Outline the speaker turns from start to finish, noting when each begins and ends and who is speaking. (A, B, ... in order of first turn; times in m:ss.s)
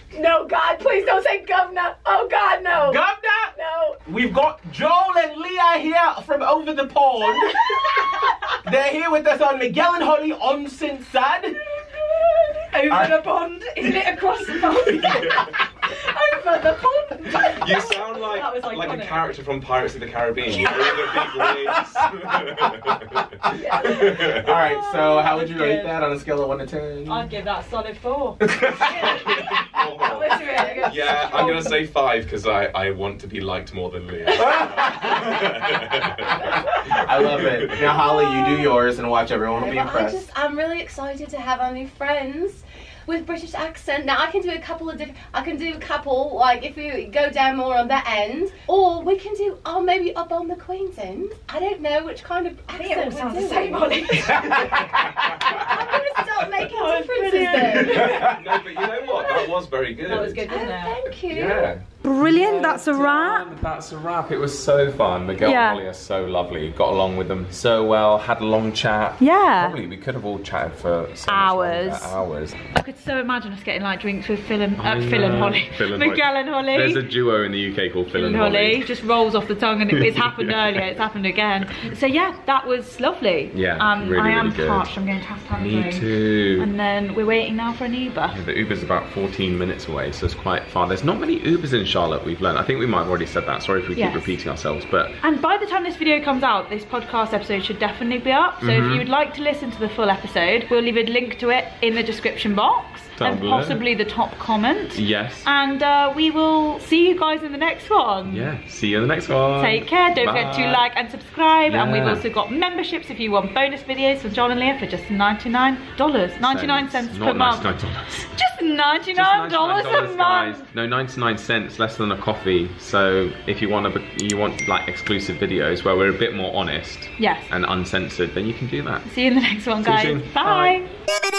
0:00.1-0:04.0 A
0:02.8-0:07.9 B
0:07.8-0:08.3 C
0:08.6-0:11.6 B
0:12.0-0:19.3 C
0:12.9-0:13.2 B
0:14.9-0:15.5 D
0:17.3-0:24.6 D
0:20.5-0:21.0 C
0:20.6-0:21.9 B
0:23.5-0:26.0 C
0:23.5-0:27.2 B
0:27.0-0:29.1 C
0:28.4-0:29.8 B
0:28.9-0:29.4 A
0:29.0-0:36.4 D
0:30.0-0:31.7 A
0:30.0-0:31.8 C
0:34.4-0:40.3 B
0:36.4-0:37.0 A
0:37.2-0:38.0 D
0:37.9-0:38.8 A
0:39.5-0:54.6 A
0:52.7-0:54.7 C
0:54.4-0:55.5 B
0:54.5-0:55.8 D
0:55.3-0:58.2 A
0:56.6-0:58.1 C
0:57.6-1:00.5 D
0:57.9-0:58.5 B
0:59.0-0:59.6 A
1:00.0-1:01.0 C
1:00.2-1:01.7 A
1:01.0-1:12.6 D
1:02.0-1:03.5 C
1:05.4-1:05.8 C
1:09.2-1:09.8 C
1:11.2-1:12.2 C
1:12.7-1:17.0 C
1:14.8-1:18.9 D
1:18.1-1:28.4 C
1:19.9-1:21.0 D
1:23.5-1:24.9 D
1:25.5-1:26.7 D
1:28.3-1:35.2 D
1:33.9-1:34.3 C
1:35.2-1:48.5 C
1:38.6-1:39.1 D
1:43.2-1:43.8 D
1:44.9-1:45.5 D
1:48.2-1:50.8 D
1:49.6-2:00.7 C
1:51.7-1:52.2 D
1:56.4-1:58.3 D
1:59.1-2:09.0 D
2:07.2-2:07.5 C
2:09.0-2:10.9 C
2:09.8-2:10.8 D